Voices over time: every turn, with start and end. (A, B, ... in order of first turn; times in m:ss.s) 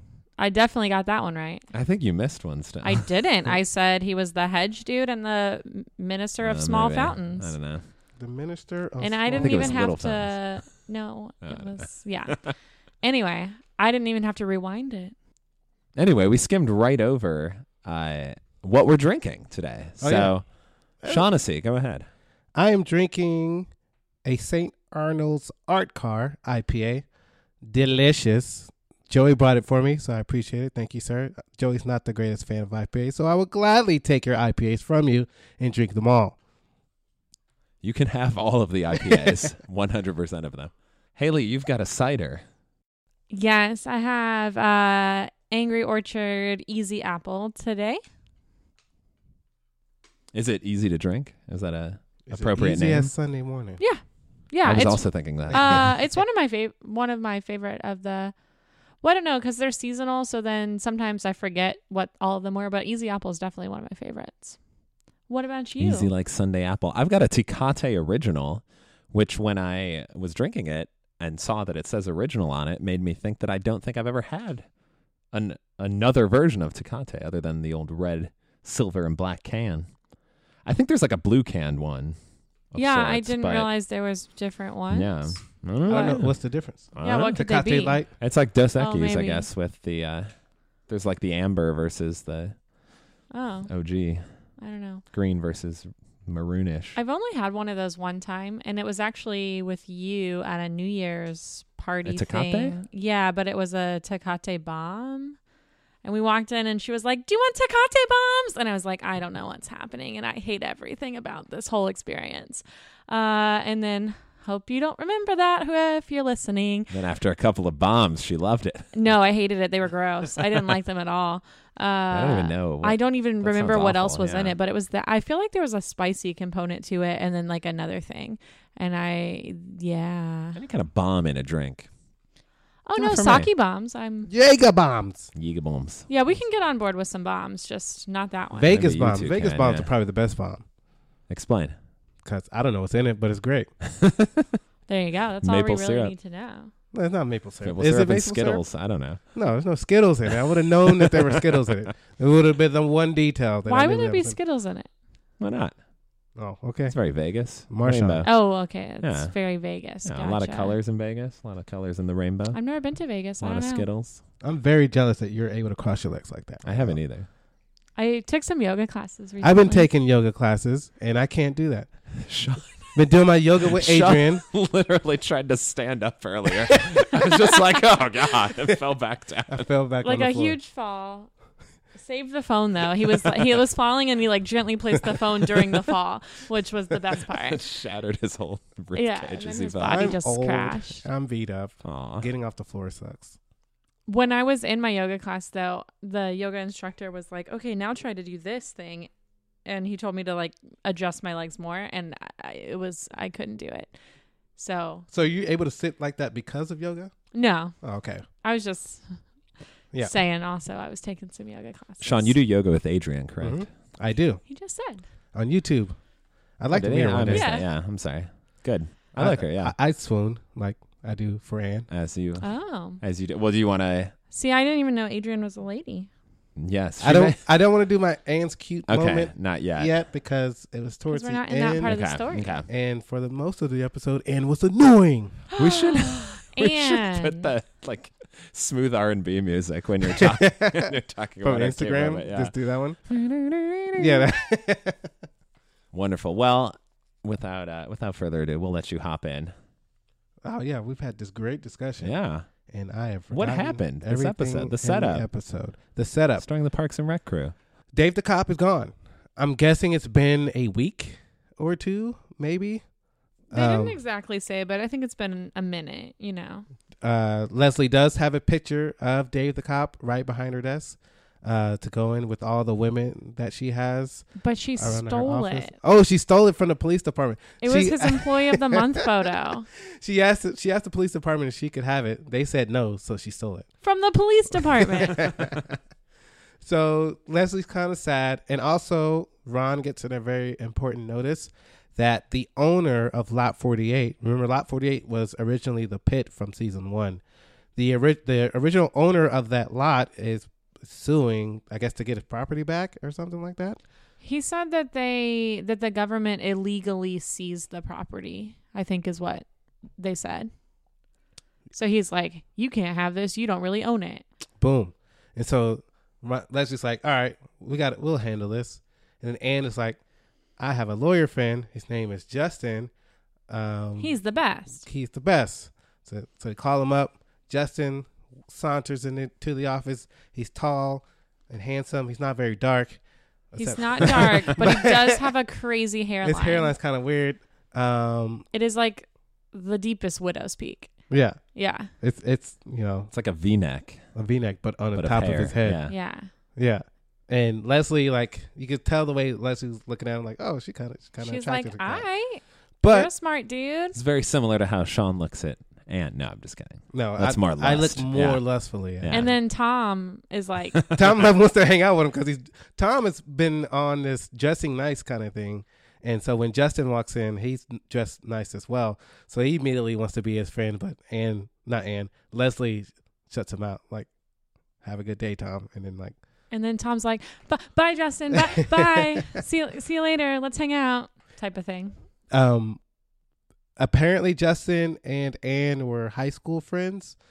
0:00.4-0:01.6 A
0:01.7-0:03.1 B
0:02.8-0:07.5 A
0:06.4-0:07.8 B
0:08.2-0:09.8 C
0:09.0-0:12.5 A
0:09.3-0:10.4 B
0:11.4-0:12.5 B
0:13.0-0:15.1 A
0:16.0-0:20.4 B
0:20.0-0:20.4 C
0:21.0-0:22.1 B
0:22.5-0:23.7 C
0:24.2-0:27.0 C
0:27.6-0:36.4 C
0:37.8-0:42.4 B
0:43.3-0:48.0 A
0:50.3-0:53.1 B
0:52.3-0:53.8 C
0:53.8-0:58.3 A
0:54.6-0:55.9 B
0:55.5-0:55.8 C
0:59.0-1:04.6 A
1:05.3-1:06.1 A
1:05.8-1:14.6 B
1:15.3-1:19.9 B
1:20.6-1:22.2 B
1:22.7-1:23.7 B
1:22.7-1:25.4 A
1:24.9-1:26.4 B
1:25.9-1:28.1 C
1:25.9-1:26.2 A
1:26.9-1:27.4 B
1:27.0-1:28.0 A
1:28.2-1:30.3 B
1:28.8-1:29.4 A
1:30.9-1:32.5 B
1:33.3-1:33.7 A
1:33.7-1:34.2 B
1:34.6-1:35.0 A
1:35.1-1:37.0 B
1:37.0-1:45.4 A
1:42.0-1:42.8 B
1:46.0-1:56.9 A
1:56.9-1:58.9 B
1:58.9-2:10.6 A
2:02.1-2:04.5 B
2:10.5-2:11.9 B
2:12.8-2:14.3 A
2:13.0-2:13.5 B
2:14.3-2:15.3 C
2:15.3-2:16.1 B
2:16.1-2:18.8 A
2:18.6-2:20.6 C
2:18.6-2:19.9 B
2:21.3-2:21.7 B
2:22.2-2:23.7 C
2:24.0-2:24.6 B
2:24.9-2:26.7 A
2:25.4-2:26.1 B
2:26.9-2:28.6 C
2:27.6-2:29.2 B
2:29.3-2:34.4 C
2:31.0-2:31.4 B
2:33.7-2:34.9 A
2:35.4-2:35.7 B
2:36.4-2:37.0 C
2:36.9-2:38.4 B
2:37.7-2:38.3 C
2:38.2-2:40.8 A
2:39.0-2:39.3 B
2:40.0-2:42.6 B
2:42.5-2:43.9 A
2:43.4-2:44.2 B
2:44.4-2:47.0 C
2:46.6-2:47.3 B
2:48.0-2:49.9 A
2:49.4-2:51.9 C
2:52.2-2:52.8 B
2:52.9-2:54.4 C
2:53.6-2:59.7 B
2:59.5-3:00.6 C
3:00.0-3:01.3 A
3:01.9-3:07.6 A
3:07.3-3:10.1 B
3:08.9-3:11.0 A
3:09.8-3:13.4 C
3:11.8-3:12.3 B
3:14.1-3:19.1 A
3:19.6-3:23.9 A
3:24.6-3:25.1 A
3:25.1-3:27.1 C
3:27.3-3:27.8 A
3:27.8-3:28.2 C
3:28.4-3:29.2 A
3:30.0-3:32.3 A
3:32.0-3:33.6 B
3:33.4-3:34.4 C
3:34.5-3:35.0 A
3:35.3-3:36.0 C
3:36.6-3:37.5 C
3:36.7-3:39.7 B
3:37.3-3:37.7 A
3:39.1-3:41.9 C
3:41.9-3:42.5 B
3:42.4-3:43.0 A
3:43.0-3:44.1 B
3:44.3-3:46.1 A
3:46.6-3:47.4 B
3:47.0-3:52.0 C
3:48.9-3:49.9 B
3:51.1-3:52.6 A
3:51.8-3:52.7 B
3:52.7-3:55.4 C
3:55.6-3:57.5 A
3:55.6-4:02.5 B
4:00.1-4:03.0 C
4:03.1-4:04.3 B
4:04.0-4:05.1 C
4:05.9-4:09.5 B
4:10.4-4:12.1 C
4:12.0-4:12.5 B
4:12.7-4:16.4 C
4:13.3-4:15.3 B
4:16.4-4:17.5 B
4:17.9-4:22.8 C
4:23.5-4:24.0 C
4:23.5-4:26.6 A
4:27.0-4:39.0 C
4:34.4-4:35.8 A
4:37.6-4:39.7 A
4:39.8-4:43.7 C
4:43.8-4:45.3 A
4:44.8-4:45.7 C
4:46.6-4:57.2 C
4:57.8-5:03.8 C
5:04.2-5:09.4 A
5:10.0-5:10.5 A
5:11.7-5:14.2 A
5:14.6-5:20.0 C
5:20.6-5:22.9 C
5:23.5-5:24.2 C
5:24.0-5:24.9 A
5:24.8-5:33.0 C
5:33.5-5:35.2 C
5:33.6-5:36.7 A
5:36.2-5:38.4 C
5:38.5-5:40.9 A
5:41.1-5:41.4 C
5:41.5-5:41.9 A
5:42.0-5:43.1 C
5:43.1-5:44.0 B
5:44.1-5:45.8 C
5:45.0-5:45.9 B
5:45.9-5:46.3 A
5:46.6-5:52.0 C
5:51.2-5:54.0 A
5:52.8-5:53.1 C
5:53.9-5:58.4 B
5:56.9-5:59.3 C
5:59.0-5:59.3 B
5:59.1-6:00.8 A
6:00.7-6:01.2 B
6:00.9-6:14.1 C
6:14.8-6:16.2 C
6:16.5-6:21.9 A
6:18.3-6:19.4 C
6:22.3-6:22.8 C
6:23.8-6:27.2 C